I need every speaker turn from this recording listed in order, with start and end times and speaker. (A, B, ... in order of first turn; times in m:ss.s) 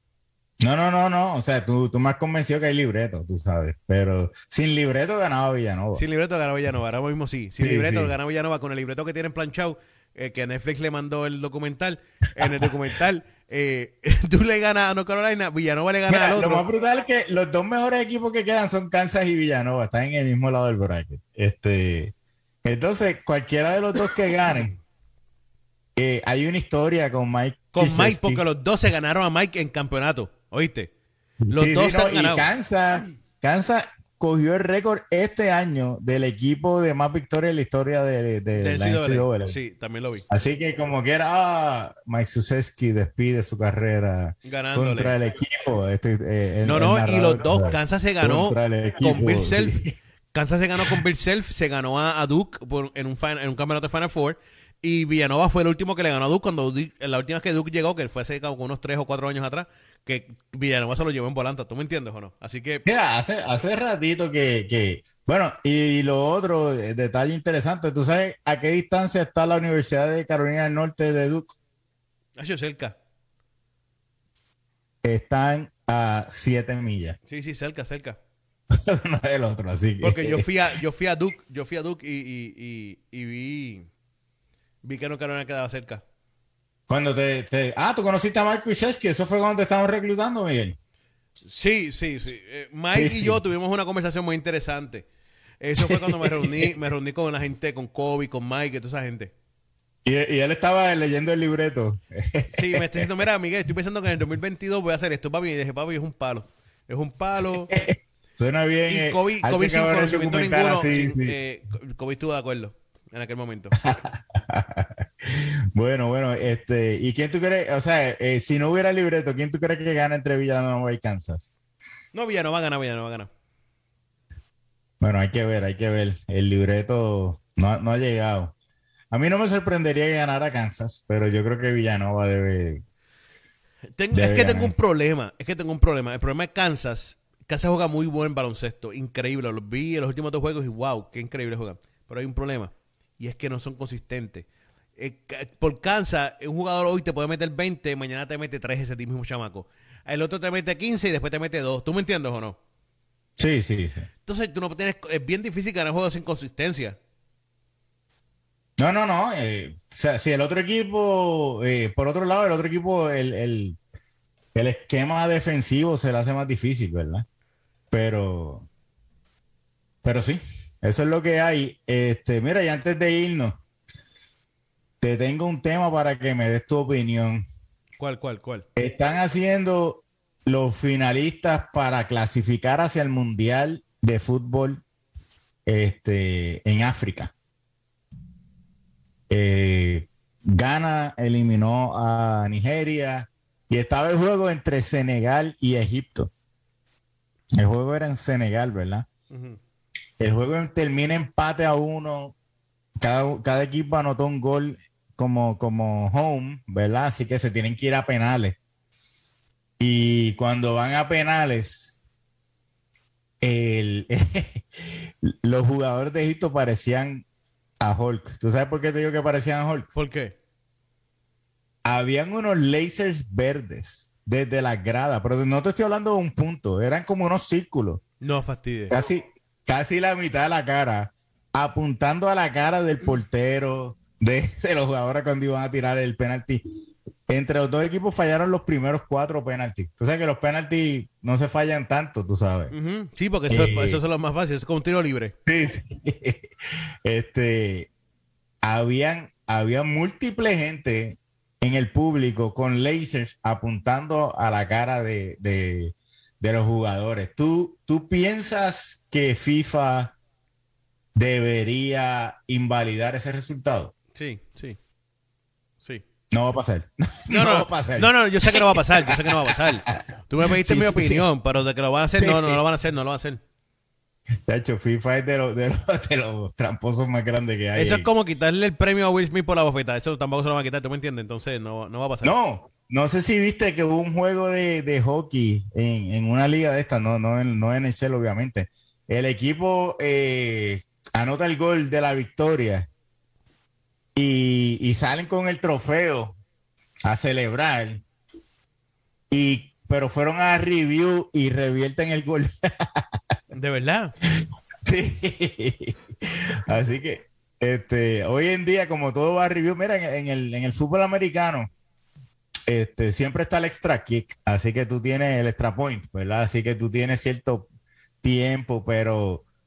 0:00.6-0:06.0 A
0:05.9-0:16.6 B
0:07.6-0:08.1 A
0:12.4-0:12.7 A
0:16.1-0:22.1 A
0:22.6-0:24.7 A
0:26.0-0:28.4 A
0:27.7-0:30.9 B
0:31.4-0:39.6 A
0:31.5-0:32.5 B
0:38.6-0:40.2 B
0:40.3-0:49.9 A
0:44.4-0:45.2 B
0:46.6-0:49.8 B
0:50.3-1:02.8 B
1:02.8-1:11.6 A
1:12.4-1:13.0 B
1:15.0-1:17.2 A
1:17.3-1:18.2 B
1:18.7-1:20.4 A
1:20.0-1:23.9 B
1:24.8-1:26.0 B
1:26.9-1:30.8 A
1:31.5-1:35.1 B
1:32.9-1:33.4 A
1:35.6-1:39.3 B
1:35.8-1:36.7 A
1:40.0-1:43.1 A
1:42.5-1:47.7 B
1:47.4-1:51.3 A
1:48.9-1:53.8 B
1:53.8-2:01.5 A
2:02.1-2:03.3 B
2:05.0-2:08.5 A
2:09.1-2:12.8 A
2:14.0-2:32.6 B
2:14.1-2:14.7 A
2:33.4-2:34.1 A
2:34.2-2:37.0 B
2:38.8-2:43.8 A
2:44.5-2:47.2 A
2:47.9-2:48.7 A
2:50.0-2:53.6 A
2:55.0-2:57.4 A
2:58.0-2:58.6 B
2:58.8-3:04.8 A
3:05.6-3:07.3 A
3:09.3-3:16.3 A
3:17.5-3:19.1 A
3:19.3-3:19.6 B
3:20.2-3:22.4 A
3:23.0-3:28.6 A
3:29.8-3:32.0 A
3:33.4-3:37.2 A
3:37.8-3:39.9 A
3:39.9-3:40.3 B
3:41.8-3:48.0 A
3:48.2-3:48.9 B
3:48.9-3:56.6 A
3:57.3-4:02.7 A
4:02.7-4:05.3 B
4:03.5-4:04.0 A
4:05.4-4:07.9 A
4:08.6-4:20.2 A
4:21.1-4:23.9 A
4:24.1-4:24.8 B
4:26.3-4:31.2 A
4:27.3-4:33.4 B
4:32.2-4:32.6 A
4:34.4-4:38.1 A
4:37.7-4:42.3 B
4:42.2-4:52.9 A
4:54.2-4:56.4 A
4:57.0-4:58.0 A
4:59.3-5:03.0 A
5:03.5-5:04.1 B
5:04.4-5:11.7 A
5:12.7-5:17.7 A
5:18.2-5:19.4 A